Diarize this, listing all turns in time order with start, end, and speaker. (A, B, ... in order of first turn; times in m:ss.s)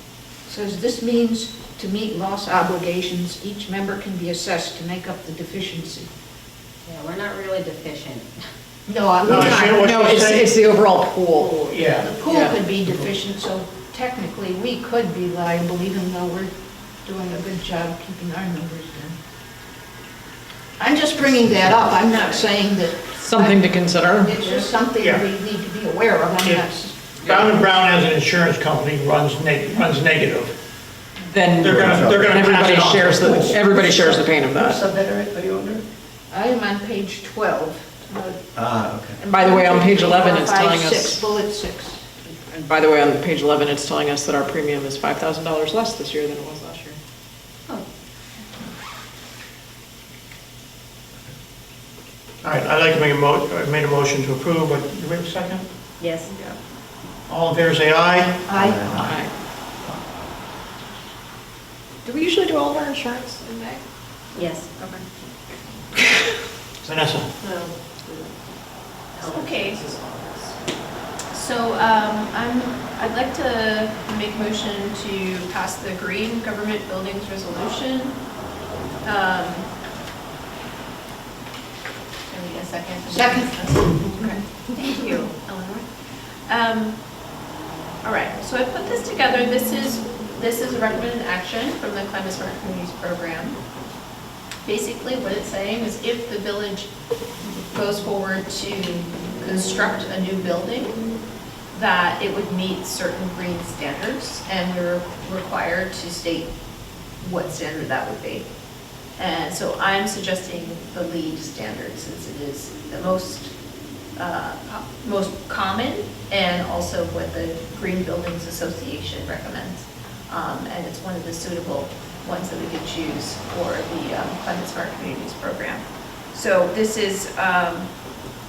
0:00.5-0:06.1 A
0:06.8-0:08.3 B
0:08.9-0:10.2 A
0:09.3-0:10.5 C
0:09.8-0:12.6 D
0:11.7-0:12.1 C
0:11.9-0:16.5 A
0:17.0-0:19.2 A
0:20.8-0:27.0 A
0:23.2-0:24.4 D
0:25.0-0:25.2 C
0:27.2-0:30.6 C
0:31.3-0:34.8 D
0:31.6-0:33.4 C
0:31.6-0:32.4 E
0:33.2-0:35.8 E
0:36.3-0:38.4 A
0:38.6-0:39.2 E
0:39.2-0:42.0 A
0:39.2-0:41.3 D
0:42.3-0:47.0 D
0:52.4-0:55.7 C
0:56.0-0:56.3 B
0:57.3-0:59.2 C
0:58.5-0:58.9 A
0:58.5-0:59.2 E
0:58.9-0:59.3 D
1:02.0-1:03.8 D
1:04.4-1:04.7 B
1:06.8-1:07.3 C
1:07.4-1:08.4 F
1:09.1-1:10.6 F
1:09.2-1:09.8 G
1:11.3-1:18.2 G
1:19.0-1:19.7 G
1:22.3-1:27.0 G
1:23.1-1:24.1 A
1:28.0-1:33.6 G
1:34.6-1:36.9 G
1:37.7-1:41.0 G
1:41.7-1:46.5 G
1:47.2-1:48.5 G
1:49.2-1:53.5 G
1:54.2-2:08.0 G